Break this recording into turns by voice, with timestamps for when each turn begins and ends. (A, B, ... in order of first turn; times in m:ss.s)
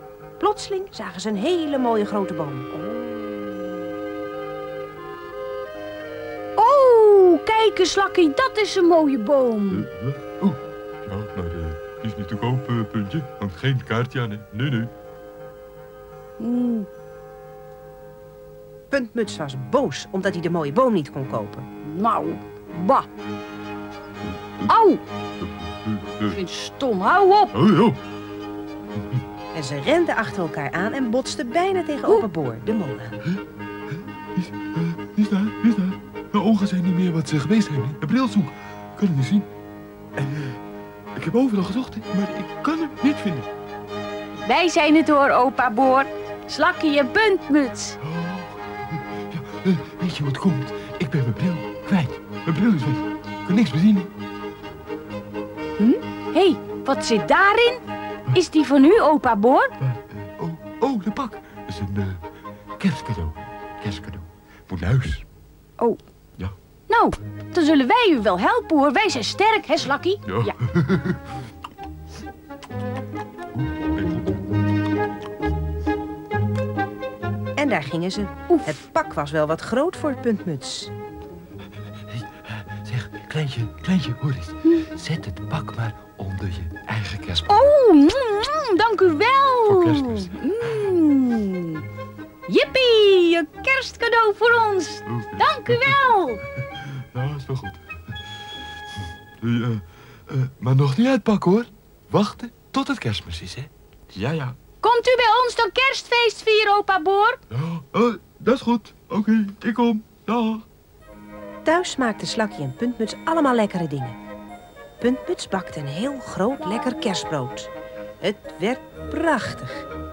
0:00.4-0:02.7 A
0:02.7-0:03.9 B
0:06.6-0:09.9 B
0:09.7-0:14.9 C
0:16.4-0:16.9 B
0:18.9-0:21.6 A
0:21.8-0:23.1 B
0:24.2-0:24.7 C
0:24.7-0:25.0 B
0:25.4-0:26.4 C
0:26.3-0:27.5 B
0:27.5-0:28.0 C
0:29.5-0:33.2 A
0:34.3-0:39.5 C
0:40.2-0:40.6 C
0:41.1-0:43.5 C
0:44.4-0:48.0 B
0:48.0-0:54.1 C
0:55.8-0:59.7 B
0:59.8-1:02.2 C
1:02.8-1:05.2 C
1:06.9-1:10.5 B
1:10.2-1:11.3 C
1:13.5-1:14.4 C
1:17.6-1:20.9 A
1:22.1-1:27.5 C
1:27.5-1:31.8 B
1:29.6-1:30.3 C
1:32.5-1:36.4 B
1:35.0-1:36.0 C
1:36.5-1:37.8 C
1:39.4-1:44.6 C
1:44.8-1:47.4 B
1:47.5-1:50.6 C
1:51.6-1:54.2 A
1:55.0-1:59.9 A